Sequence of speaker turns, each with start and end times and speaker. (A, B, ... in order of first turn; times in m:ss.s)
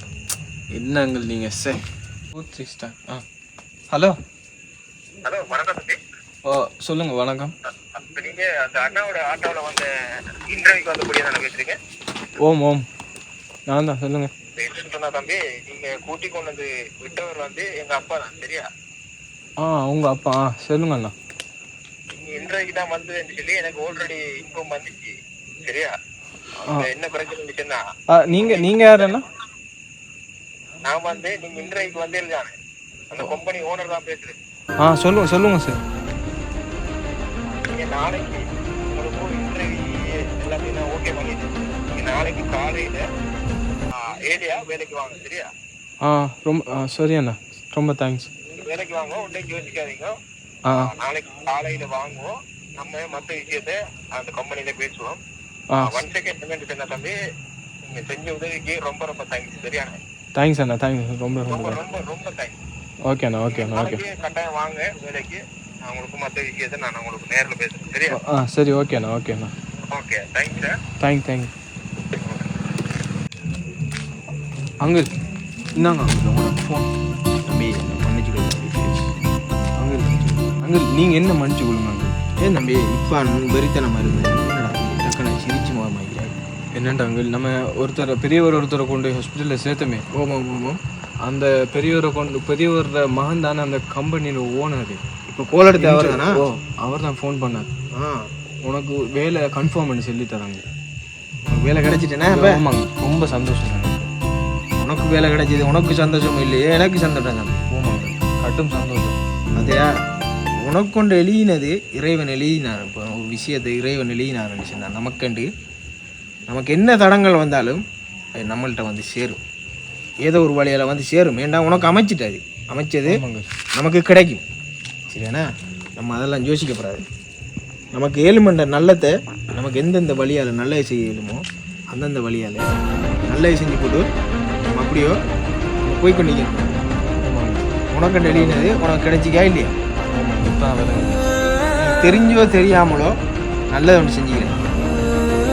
0:00.7-0:01.8 A
0:02.3-0:03.2 A
0:03.9-0:04.2 A
0:05.2-0:05.9 B
0:06.4-0:07.5 A
0:07.9-0:09.9 B
0:10.5-0:11.8 B
0:12.4-0:12.8 A
0:13.7-0:14.3 A
0:14.6-0:18.7 B
0:19.6-0:21.1 A
0:22.2-0:25.1 B
0:25.6-0:25.9 B
0:26.6-0:26.9 A
0:27.0-0:27.8 B
0:28.1-0:29.2 A
0:28.7-0:29.2 B
0:30.8-0:32.5 B
0:31.0-0:31.9 C
0:33.1-0:34.3 B
0:34.8-0:35.8 A
0:37.7-0:38.4 B
0:38.9-0:43.0 B
0:43.9-0:45.5 B
0:46.0-0:48.3 A
0:48.6-0:50.1 B
0:50.6-0:50.9 A
0:50.7-0:55.2 B
0:55.7-0:56.0 A
0:56.0-0:57.1 B
0:57.9-1:00.0 B
1:00.3-1:01.8 A
1:01.5-1:02.5 B
1:03.0-1:04.0 A
1:03.6-1:08.2 B
1:08.1-1:09.5 A
1:09.9-1:10.7 B
1:11.0-1:11.5 A
1:14.8-1:15.1 A
1:15.8-1:16.9 A
1:17.4-1:19.1 C
1:19.8-1:22.2 A
1:22.4-1:26.4 C
1:26.7-1:30.0 A
1:30.1-1:30.8 C
1:31.2-1:35.0 A
1:35.3-1:36.4 C
1:35.7-1:37.7 A
1:37.9-1:38.3 C
1:38.6-1:40.6 A
1:41.5-1:42.6 C
1:42.3-1:44.1 A
1:44.8-1:47.6 C
1:47.7-1:49.2 A
1:49.5-1:49.9 C
1:50.6-1:55.5 C
1:56.5-1:57.8 C
1:58.4-1:59.4 C
2:00.2-2:03.1 C
2:03.1-2:03.5 A
2:03.8-2:04.4 C
2:05.1-2:05.4 C
2:06.0-2:07.0 C
2:07.9-2:12.6 C
2:13.2-2:14.1 C
2:14.6-2:15.2 C
2:15.8-2:16.8 C
2:17.2-2:17.7 A
2:17.9-2:19.8 C
2:18.3-2:18.7 A
2:20.1-2:21.4 A
2:21.8-2:23.1 C
2:23.7-2:24.6 C